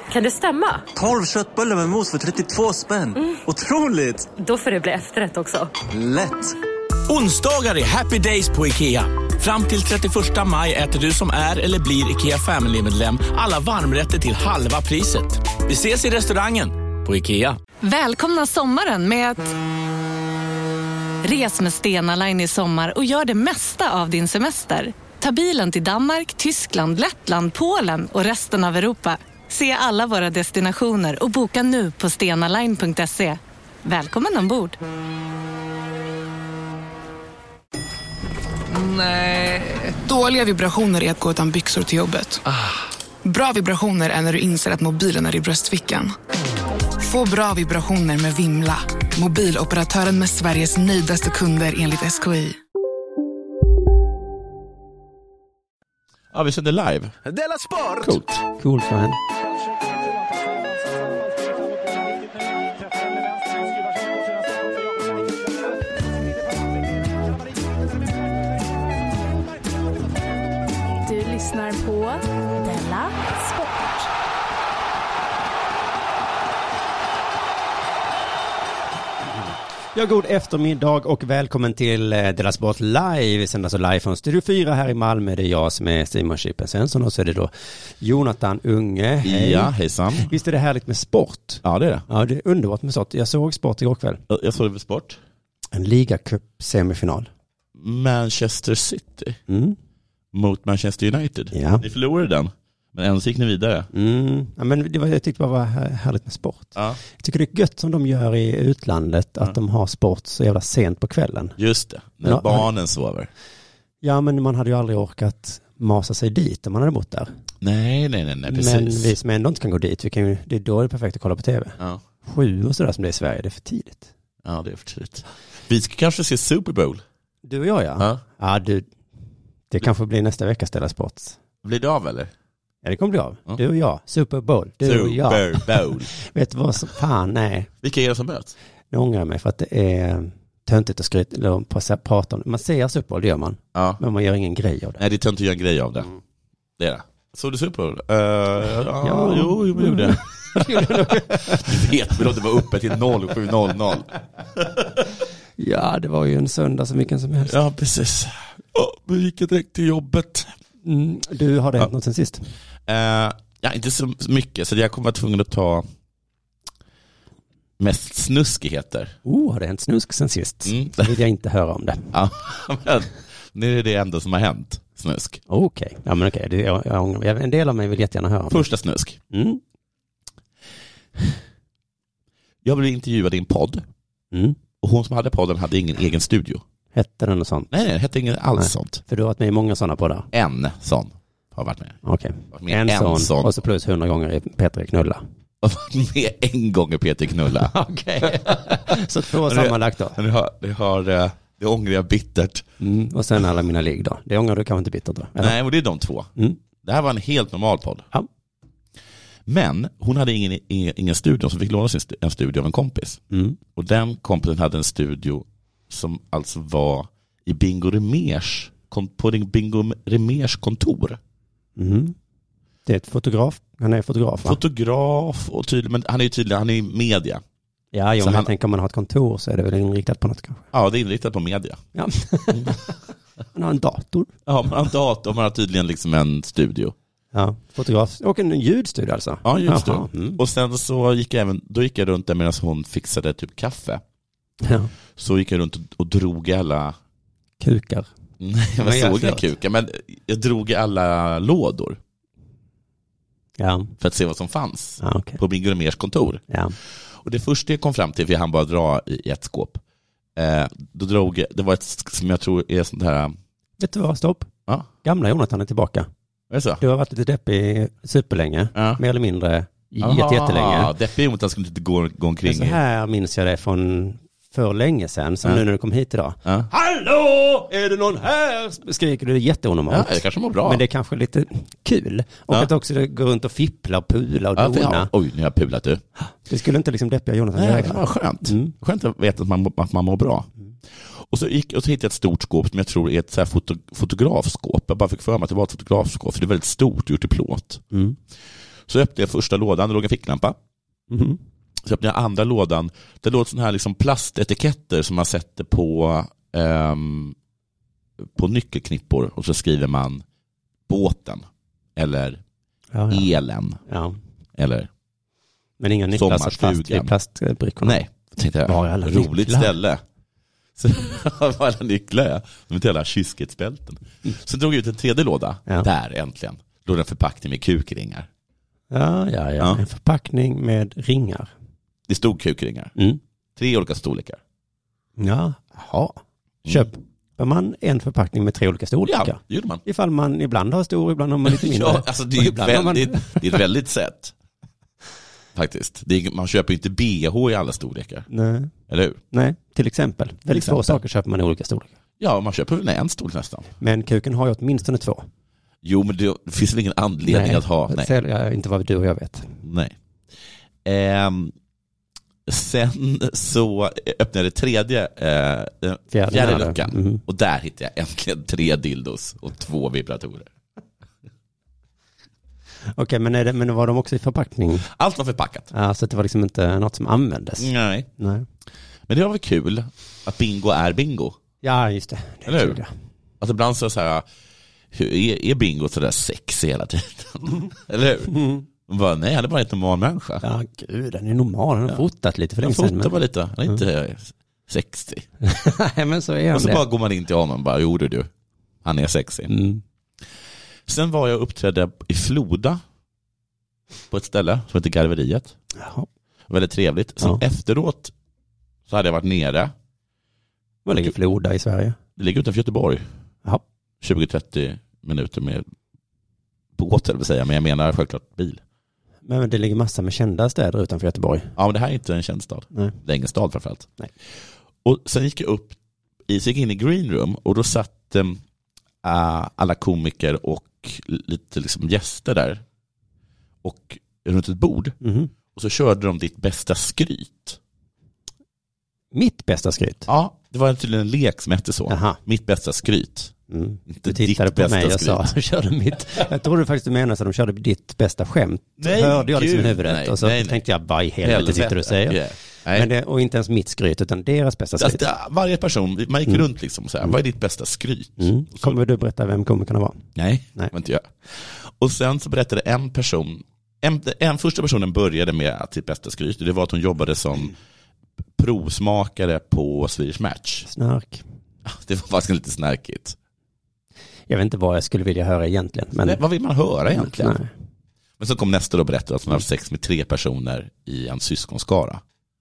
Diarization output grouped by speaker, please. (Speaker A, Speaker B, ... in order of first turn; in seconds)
Speaker A: 0.1-0.9, 4.4-5.7
Speaker B: 0.9-4.3, 5.9-6.5
Speaker C: 7.1-17.6
Speaker D: 17.8-19.5, 21.2-34.8
Speaker E: 38.7-42.4, 43.2-46.1, 47.0-52.6, 57.6-57.9
Speaker F: 56.3-57.2, 58.0-58.4, 89.2-90.3, 91.6-92.0, 94.3-95.2, 97.8-99.4, 100.3-103.9, 111.6-113.3, 117.6-119.2, 124.4-127.0, 131.6-132.3, 134.8-136.1, 137.8-138.6, 143.8-144.0, 145.0-146.1, 146.8-155.0, 157.5-160.5, 162.9-165.9, 167.8-169.2, 170.7-171.2, 172.1-175.4, 178.5-179.2, 182.6-183.9, 184.8-186.6, 187.7-189.0, 190.3-192.0, 192.5-193.6, 195.6-197.7, 199.3-202.6, 205.4-206.3, 206.8-208.1, 209.5-213.2, 213.8-221.2, 224.4-227.4, 228.2-228.5, 230.7-231.8, 234.5-236.9, 239.4-244.0, 245.2-247.0, 248.4-252.0, 254.0-256.4, 257.1-259.8, 260.4-263.4, 266.5-266.8, 268.8-269.0, 270.0-272.8, 279.9-280.8, 284.6-286.0, 287.5-297.8, 298.9-300.6, 301.8-307.4, 308.2-310.2, 310.9-311.4, 312.0-312.4, 313.1-313.8, 314.6-314.9, 316.1-317.1, 317.8-320.0, 320.8-328.3, 332.1-332.9, 333.6-334.4, 339.1-339.8, 341.4-344.3, 345.6-348.3, 348.9-349.2, 350.5-351.0, 352.2-353.7, 355.8-358.1, 359.6-359.9, 360.9-361.6, 362.5-370.5, 374.9-375.7, 377.6-378.1, 379.1-381.4, 382.5-382.8, 383.4-384.3, 384.9-388.3, 388.9-390.4, 392.6-395.3, 396.5-398.3, 398.8-399.5, 400.9-402.8, 404.1-405.6, 406.5-408.1, 408.9-409.7, 412.2-413.1, 414.0-415.7, 416.8-418.6, 421.6-423.9, 424.8-425.8, 426.3-428.4, 429.0-432.6, 433.6-435.0, 435.5-437.6, 440.1-443.3, 443.9-445.3, 448.8-450.6, 451.2-452.9, 454.8-458.8, 460.2-467.6, 468.4-470.7, 471.7-473.2, 476.0-477.4, 478.2-482.0
Speaker G: 58.5-59.2, 79.9-94.2, 95.7-97.3, 99.5-99.8, 101.5-101.8, 103.9-111.6, 112.2-112.7, 114.0-117.3, 118.5-124.1, 127.4-128.9, 129.7-131.4, 132.8-137.7, 138.9-145.0, 149.0-152.2, 155.6-157.6, 160.8-162.5, 169.2-172.1, 175.5-178.6, 179.3-179.6, 184.3-184.6, 186.9-187.7, 188.6-190.3, 192.0-195.2, 197.6-200.2, 202.8-205.6, 213.3-213.6, 221.8-222.2, 222.9-224.6, 227.9-230.6, 231.9-232.9, 233.5-234.3, 237.3-240.4, 244.6-244.9, 247.6-248.1, 248.8-249.5, 253.6-253.9, 255.0-255.4, 256.5-256.8, 263.8-264.5, 265.0-266.1, 266.8-270.9, 272.5-285.1, 286.4-288.7, 297.9-298.2, 301.1-301.4, 312.9-313.3, 313.9-314.2, 315.8-318.0, 318.6-319.7, 328.9-331.5, 335.2-343.6, 348.3-348.7, 349.3-351.9, 353.8-355.3, 357.3-359.6, 366.1-367.2, 373.0-374.9, 375.7-378.5, 381.6-382.9, 388.3-388.7, 390.4-393.1, 395.4-396.8, 399.5-399.8, 405.8-406.1, 410.9-412.0, 419.3-421.5, 435.0-435.3, 439.1-440.1, 441.9-442.2, 443.5-452.2, 452.7-455.0, 458.2-460.0, 470.7-471.2, 474.3-476.2, 476.9-477.5
Speaker H: 71.0-74.1